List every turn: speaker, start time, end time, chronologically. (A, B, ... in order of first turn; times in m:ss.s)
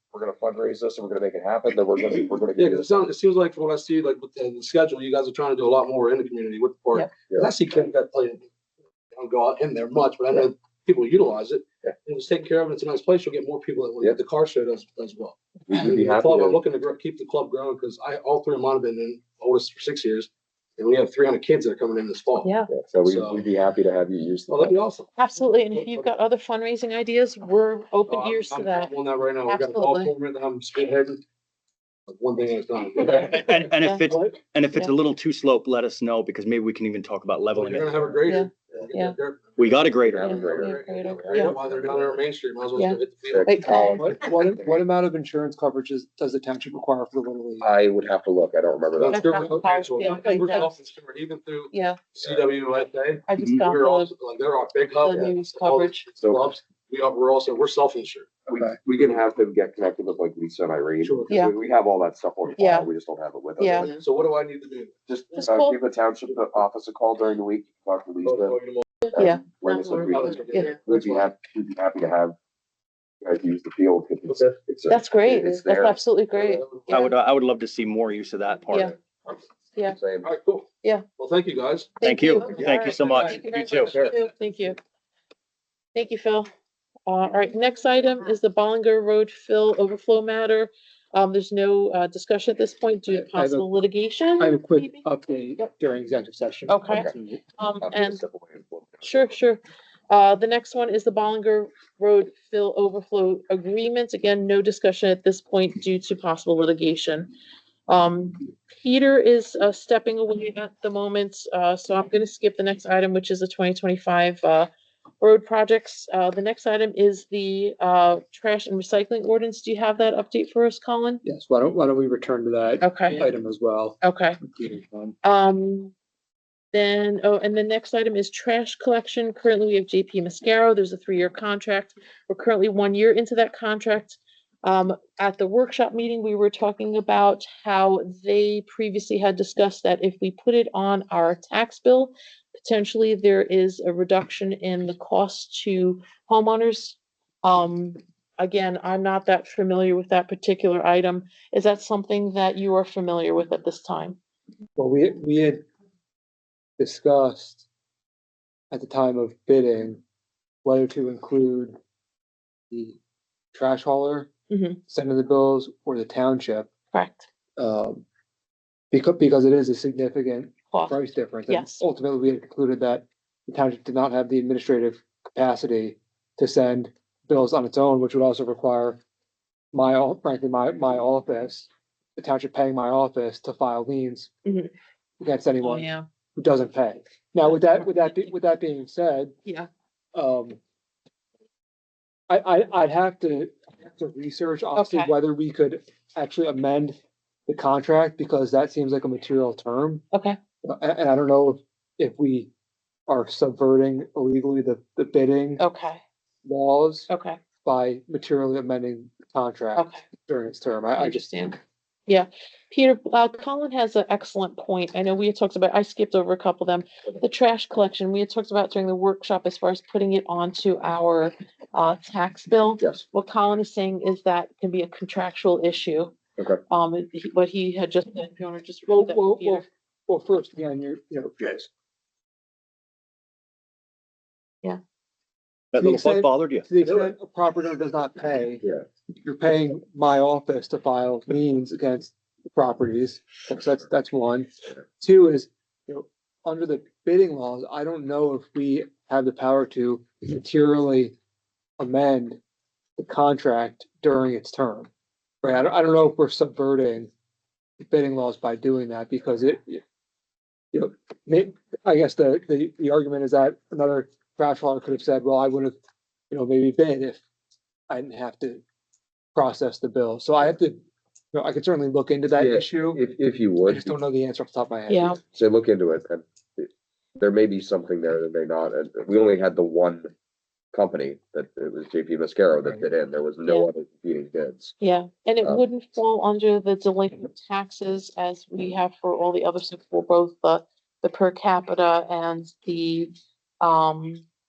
0:00.1-0:03.1 A
0:02.6-0:08.5 B
0:07.2-0:07.5 A
0:09.1-0:23.5 B
0:15.7-0:16.6 A
0:22.4-0:22.7 C
0:22.7-0:24.8 A
0:24.5-0:25.1 B
0:25.2-0:28.9 C
0:28.1-0:31.2 B
0:29.4-0:30.1 C
0:32.1-0:33.5 B
0:33.0-0:34.2 C
0:33.1-0:38.1 D
0:37.5-0:43.6 B
0:38.0-0:38.6 A
0:38.2-0:39.2 C
0:39.6-0:40.3 D
0:40.0-0:42.2 A
0:40.2-0:41.6 C
0:42.8-0:44.1 C
0:43.3-0:44.1 A
0:43.6-0:47.7 E
0:47.6-0:49.4 A
0:49.0-0:58.3 B
0:49.1-0:50.7 C
0:49.2-0:50.6 E
0:51.7-0:52.0 C
0:53.3-0:54.1 C
0:55.0-0:56.0 C
0:56.2-0:56.5 A
0:58.4-1:04.0 A
1:01.0-1:01.4 B
1:01.3-1:01.6 C
1:02.6-1:02.9 C
1:03.6-1:03.9 C
1:03.9-1:05.0 B
1:05.1-1:08.6 A
1:05.3-1:05.8 C
1:08.2-1:08.8 B
1:09.1-1:10.8 C
1:09.1-1:12.4 A
1:09.8-1:11.3 B
1:13.2-1:16.0 A
1:14.3-1:14.8 B
1:14.9-1:17.1 C
1:16.4-1:17.0 B
1:16.9-1:18.9 D
1:18.7-1:19.0 C
1:19.9-1:20.3 A
1:20.2-1:21.9 B
1:22.0-1:24.8 C
1:22.0-1:24.0 D
1:22.6-1:22.8 A
1:23.0-1:23.3 B
1:25.9-1:26.5 C
1:27.1-1:35.0 C
1:33.1-1:33.7 E
1:34.4-1:37.4 E
1:36.7-1:38.2 C
1:37.8-1:39.1 A
1:39.0-1:47.3 C
1:47.9-1:54.7 C
1:55.2-2:01.2 C
2:01.2-2:05.2 E
2:02.8-2:03.3 C
2:04.0-2:04.4 C
2:05.2-2:05.9 C
2:06.7-2:34.2 C
2:34.8-2:35.6 E
2:36.8-2:37.6 E
2:38.7-2:40.0 E
2:40.6-2:41.8 E
2:42.7-2:43.0 E
2:43.5-2:44.3 E
2:44.5-2:44.8 C
2:44.9-2:46.7 E
2:46.9-2:47.3 C
2:47.6-2:48.0 E
2:48.9-2:59.0 E
2:50.7-2:51.0 C
2:51.5-2:51.8 C
2:59.7-3:04.3 E
3:04.4-3:04.7 C
3:05.2-3:05.9 E
3:05.6-3:06.0 C
3:06.4-3:09.4 E
3:07.5-3:08.3 C
3:10.2-3:10.6 E
3:12.3-3:17.0 E
3:14.8-3:15.1 C
3:17.5-3:20.0 E
3:20.1-3:20.4 C
3:20.6-3:22.5 E
3:23.1-3:25.6 E
3:25.6-3:26.0 C
3:26.4-3:27.1 E
3:27.1-3:27.4 C
3:27.6-3:31.6 E
3:29.8-3:30.0 C
3:31.0-3:46.2 C
3:46.7-3:49.7 C
3:48.9-3:51.7 E
3:55.7-3:56.7 D
3:55.8-3:58.7 E
3:59.2-4:04.5 E
4:05.0-4:11.2 E
4:11.8-4:12.4 E
4:13.0-4:14.9 E
4:15.4-4:17.1 E
4:17.9-4:19.8 E
4:20.7-4:25.8 E
4:26.3-4:27.2 E
4:27.9-4:28.6 E
4:29.4-4:33.0 E
4:32.4-4:33.9 A
4:33.7-4:35.2 E
4:34.9-4:35.2 C
4:35.2-4:40.1 A
4:40.7-4:44.8 A
4:43.4-4:43.7 C
4:44.8-4:54.2 C